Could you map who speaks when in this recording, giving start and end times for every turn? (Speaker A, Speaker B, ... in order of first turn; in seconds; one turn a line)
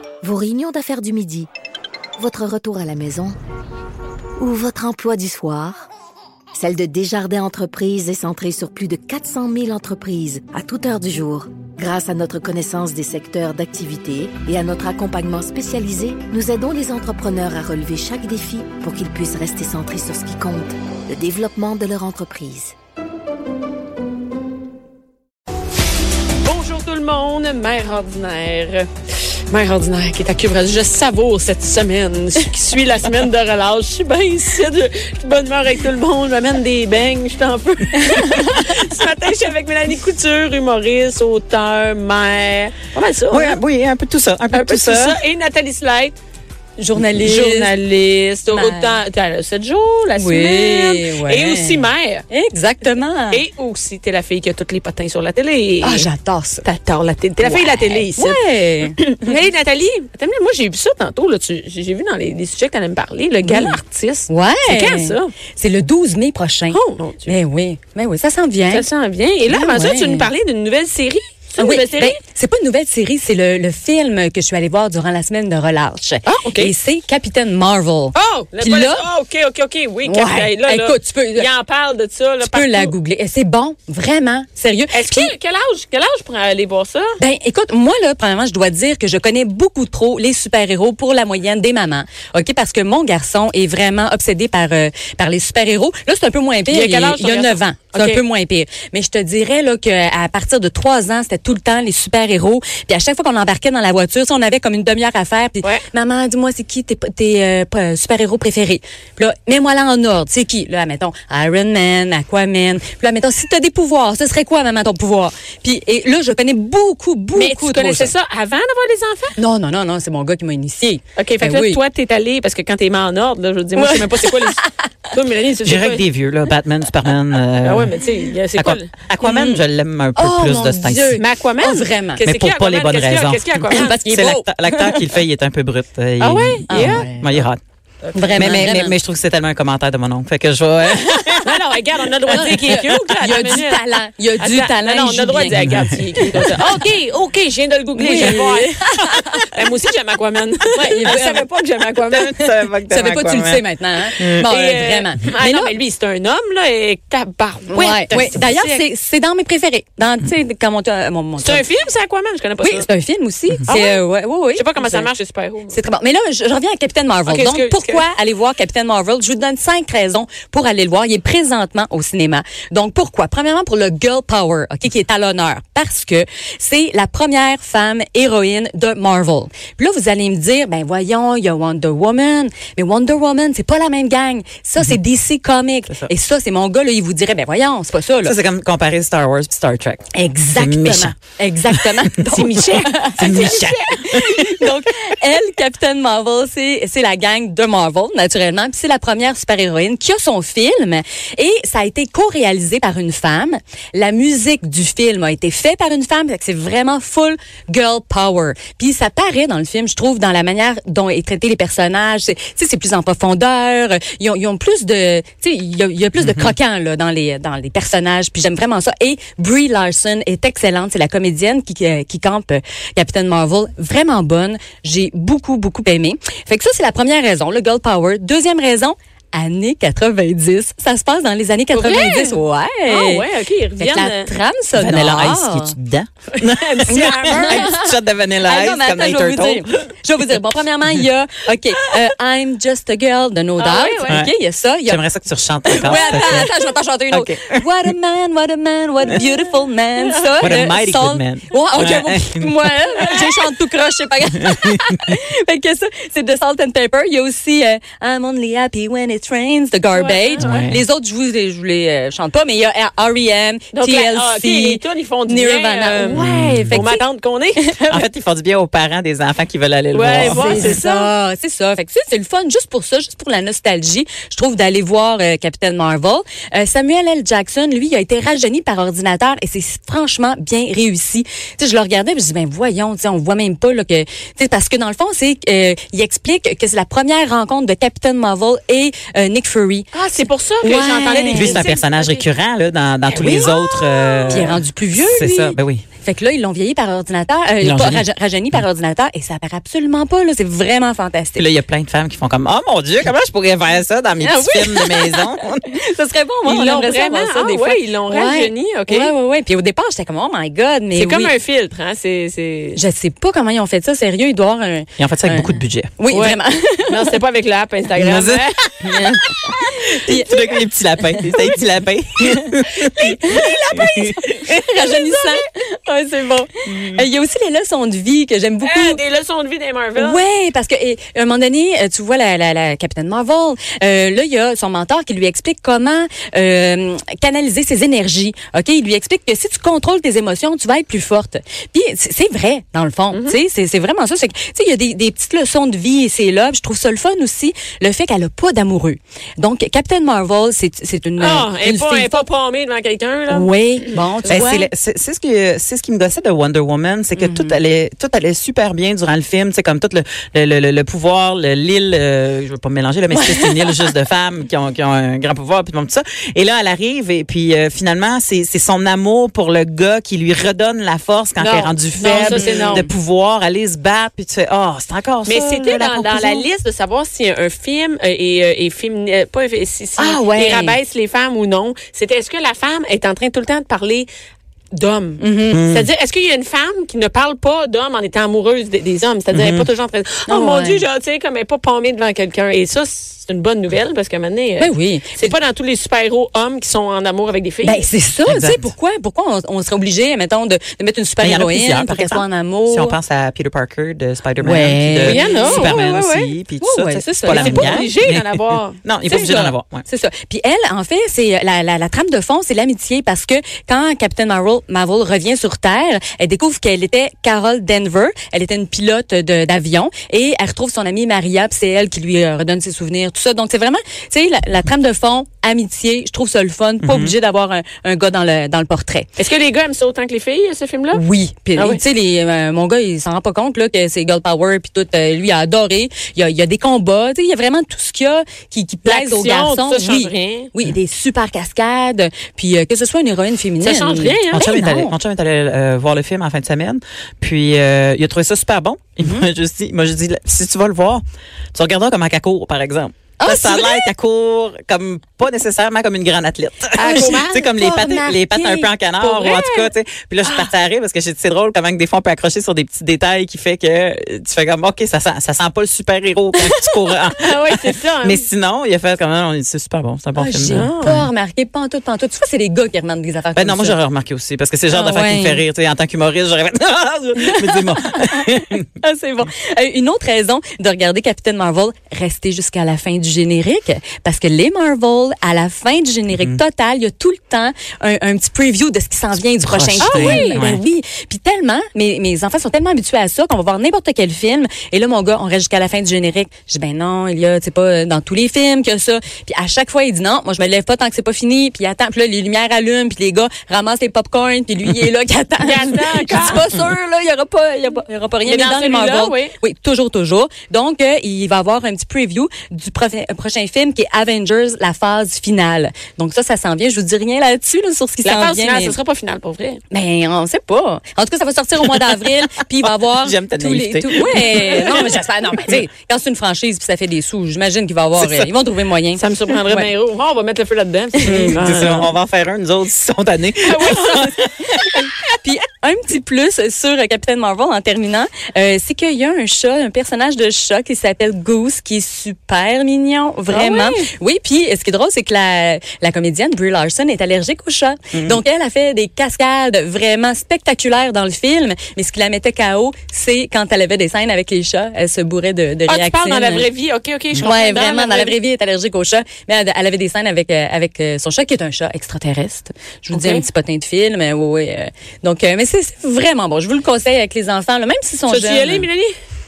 Speaker A: 0.2-1.5
Speaker A: 2.2-3.4
Speaker A: 4.4-5.9
Speaker A: 6.5-22.7
Speaker B: 26.4-28.9
Speaker B: 29.5-43.6
Speaker C: 43.3-45.2
Speaker B: 44.5-46.2
Speaker D: 46.8-47.7
Speaker B: 47.1-52.2
Speaker D: 48.5-49.0
Speaker D: 50.2-53.4
Speaker B: 53.3-56.1
Speaker D: 55.8-56.6
Speaker B: 56.6-65.3
Speaker D: 57.4-59.0
Speaker D: 63.4-63.8
Speaker D: 64.3-68.8
Speaker B: 66.7-67.3
Speaker B: 68.7-72.2
Speaker D: 69.5-70.3
Speaker D: 71.6-79.1
Speaker B: 76.2-76.7
Speaker B: 78.1-82.9
Speaker D: 80.0-81.5
Speaker D: 82.4-85.3
Speaker B: 84.9-87.1
Speaker D: 87.2-118.1
Speaker B: 96.7-98.2
Speaker B: 117.3-119.3
Speaker D: 119.4-121.8
Speaker B: 121.2-126.0
Speaker D: 123.8-124.8
Speaker C: 125.6-127.9
Speaker B: 127.6-128.9
Speaker C: 128.5-131.2
Speaker D: 129.2-129.6
Speaker D: 130.2-132.3
Speaker B: 131.2-134.0
Speaker C: 132.2-137.6
Speaker D: 133.7-135.2
Speaker B: 136.2-137.4
Speaker D: 136.7-137.3
Speaker B: 138.0-138.7
Speaker D: 138.1-139.0
Speaker C: 138.3-141.6
Speaker B: 141.4-152.3
Speaker D: 142.3-145.7
Speaker C: 142.3-142.8
Speaker C: 145.6-146.5
Speaker D: 146.2-146.6
Speaker D: 147.9-149.5
Speaker D: 150.8-151.5
Speaker C: 152.1-154.5
Speaker D: 152.2-155.7
Speaker B: 154.4-158.8
Speaker D: 157.7-161.6
Speaker B: 161.4-162.9
Speaker D: 162.6-165.1
Speaker B: 163.7-164.0
Speaker B: 164.5-165.8
Speaker D: 165.7-188.3
Speaker B: 167.3-168.1
Speaker C: 188.2-191.2
Speaker D: 190.1-233.2
Speaker C: 191.7-192.4
Speaker B: 192.3-193.8
Speaker C: 193.2-194.7
Speaker C: 216.2-216.5
Speaker B: 231.7-234.3
Speaker D: 233.8-235.7
Speaker C: 234.7-239.7
Speaker B: 236.3-237.7
Speaker D: 236.9-245.0
Speaker B: 243.6-244.2
Speaker C: 244.1-244.3
Speaker C: 244.8-246.5
Speaker D: 245.6-267.0
Speaker C: 247.1-247.9
Speaker B: 250.2-250.5
Speaker C: 250.4-252.6
Speaker C: 254.4-254.8
Speaker B: 259.9-260.7
Speaker C: 260.4-260.8
Speaker B: 263.7-267.7
Speaker C: 266.1-266.8
Speaker D: 267.6-268.1
Speaker C: 267.9-270.8
Speaker B: 269.9-271.1
Speaker D: 270.1-289.9
Speaker B: 289.9-292.2
Speaker D: 290.6-291.7
Speaker C: 291.3-295.8
Speaker B: 293.1-294.6
Speaker D: 294.3-301.5
Speaker C: 297.6-298.0
Speaker C: 301.4-305.8
Speaker D: 304.2-311.3
Speaker B: 306.4-309.1
Speaker B: 310.9-312.8
Speaker D: 312.7-317.2
Speaker C: 315.0-315.9
Speaker B: 316.1-318.7
Speaker C: 318.0-324.1
Speaker D: 318.9-321.6
Speaker D: 322.4-329.0
Speaker B: 324.8-325.4
Speaker C: 326.7-327.0
Speaker B: 328.6-330.2
Speaker D: 330.0-352.3
Speaker B: 343.1-343.4
Speaker B: 351.2-353.5
Speaker D: 353.3-354.7
Speaker C: 354.2-375.6
Speaker D: 357.1-357.6
Speaker D: 363.1-363.9
Speaker B: 371.4-372.8
Speaker D: 372.1-372.9
Speaker B: 375.2-384.1
Speaker D: 375.5-376.4
Speaker D: 380.0-380.8
Speaker B: 384.7-397.9
Speaker D: 385.2-385.6
Speaker C: 385.5-385.9
Speaker C: 389.3-389.7
Speaker D: 390.3-390.8
Speaker D: 394.6-395.4
Speaker D: 397.6-403.0
Speaker C: 398.2-398.7
Speaker C: 401.2-409.9
Speaker D: 404.4-405.8
Speaker B: 405.0-406.3
Speaker D: 406.6-407.9
Speaker B: 407.3-408.8
Speaker D: 409.1-429.1
Speaker C: 426.8-427.1
Speaker B: 429.2-431.0
Speaker D: 430.9-444.9
Speaker B: 438.8-440.5
Speaker B: 443.6-444.4
Speaker C: 444.3-451.0
Speaker D: 449.0-449.3
Speaker C: 451.5-471.1
Speaker D: 453.2-453.9
Speaker B: 456.7-457.4
Speaker D: 456.9-458.7
Speaker B: 459.0-459.7
Speaker B: 467.2-468.2
Speaker D: 470.1-473.8
Speaker B: 470.5-471.0
Speaker C: 473.3-478.6
Speaker D: 474.7-475.4
Speaker D: 477.2-518.8
Speaker C: 489.4-490.6
Speaker B: 489.8-490.4
Speaker B: 505.4-506.5
Speaker B: 508.2-509.3
Speaker B: 518.0-519.6
Speaker D: 519.7-529.7
Speaker C: 522.8-524.9
Speaker C: 528.0-528.3
Speaker B: 529.0-531.9
Speaker C: 531.0-534.7
Speaker D: 531.0-531.3
Speaker B: 533.4-534.1
Speaker D: 534.5-556.5
Speaker B: 543.3-543.9
Speaker C: 547.9-548.2
Speaker B: 555.7-558.2
Speaker D: 557.1-568.7
Speaker B: 562.9-563.2
Speaker B: 568.1-568.9